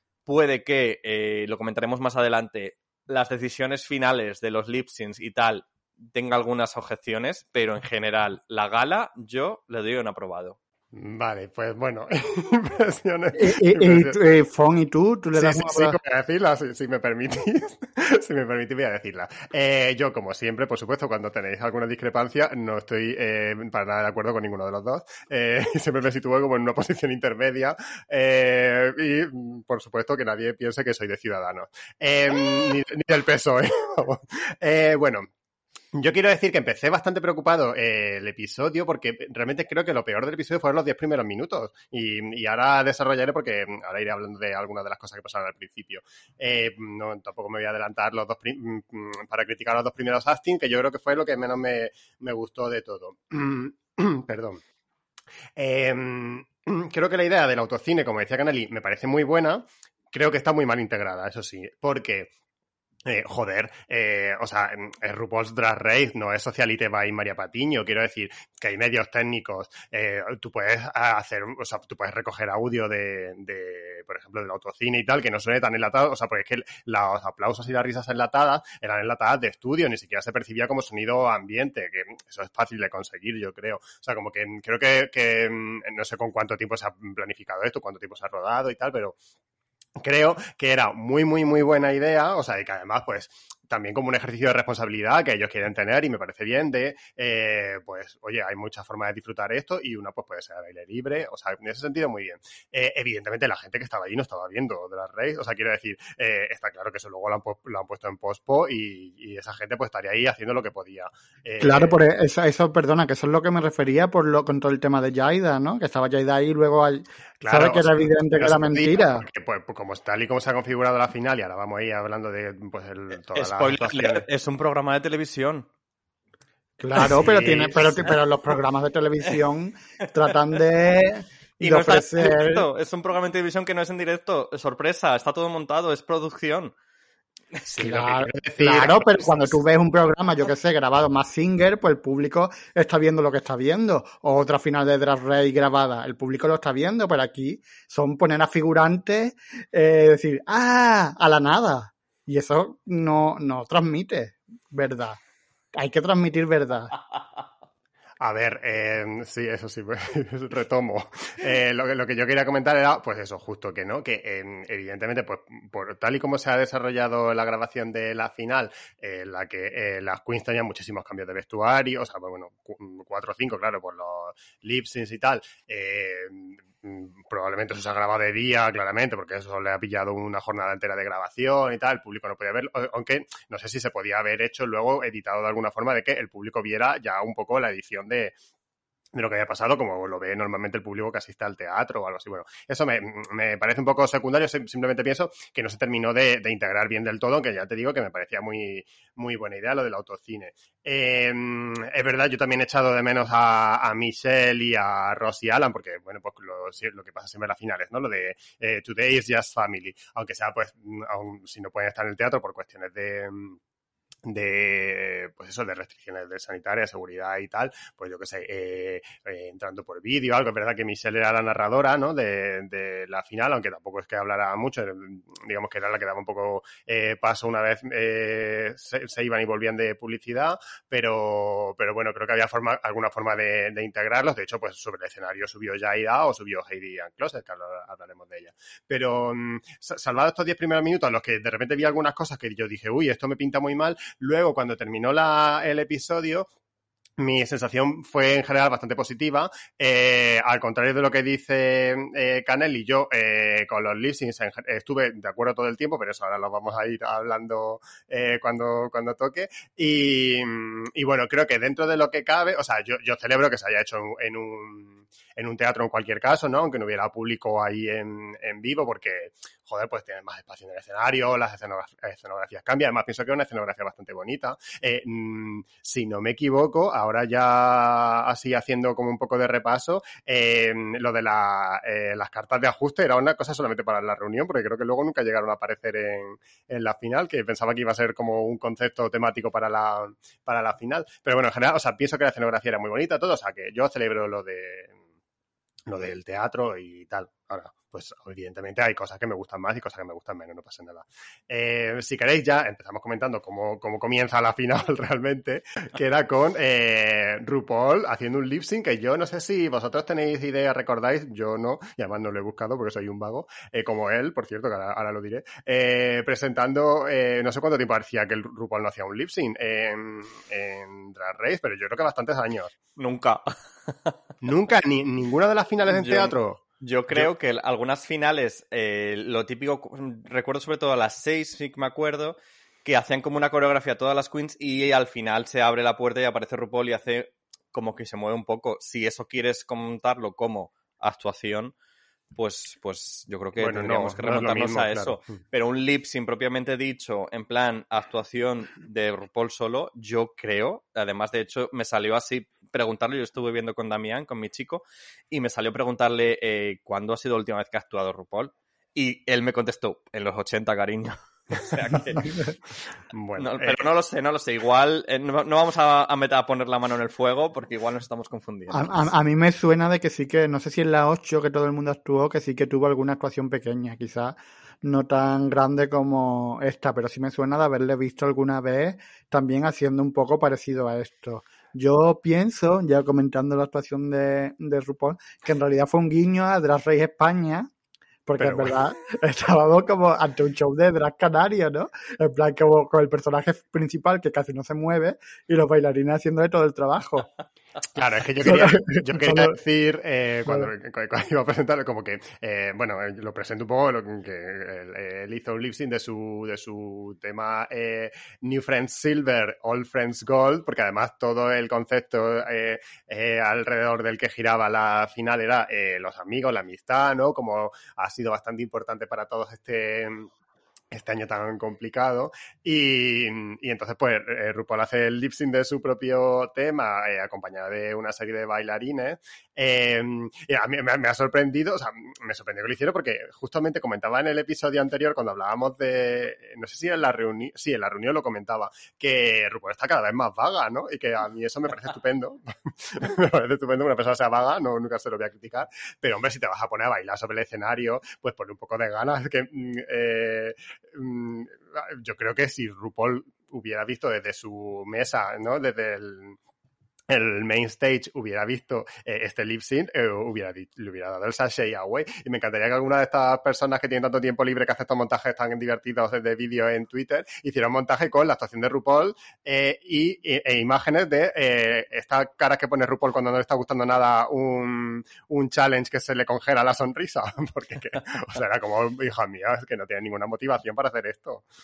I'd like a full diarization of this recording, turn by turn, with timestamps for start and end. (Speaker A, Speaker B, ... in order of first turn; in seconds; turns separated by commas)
Speaker A: 0.3-10.6, Speaker B: 10.9-14.2, Speaker C: 13.3-16.0, Speaker B: 15.3-35.3, Speaker B: 35.9-54.6, Speaker B: 55.6-62.3, Speaker B: 63.1-89.2, Speaker B: 90.0-112.0, Speaker C: 111.6-119.2, Speaker B: 117.4-124.2, Speaker A: 123.3-125.7, Speaker C: 126.8-132.7, Speaker B: 127.1-127.9, Speaker A: 131.6-136.7, Speaker B: 137.7-139.6, Speaker C: 137.8-155.2, Speaker C: 155.7-156.9, Speaker B: 158.2-188.3, Speaker B: 189.1-213.6, Speaker B: 214.2-246.5, Speaker B: 247.2-295.0, Speaker B: 295.9-322.8, Speaker A: 323.0-324.1, Speaker B: 324.4-327.3, Speaker A: 325.9-341.7, Speaker A: 342.4-362.2, Speaker B: 343.6-345.2, Speaker C: 362.2-362.5, Speaker B: 363.1-363.9, Speaker A: 363.4-369.1, Speaker C: 368.7-387.7, Speaker C: 388.3-397.3, Speaker B: 388.4-388.7, Speaker B: 397.9-420.3, Speaker C: 398.4-399.5, Speaker B: 420.9-456.4, Speaker B: 457.1-481.4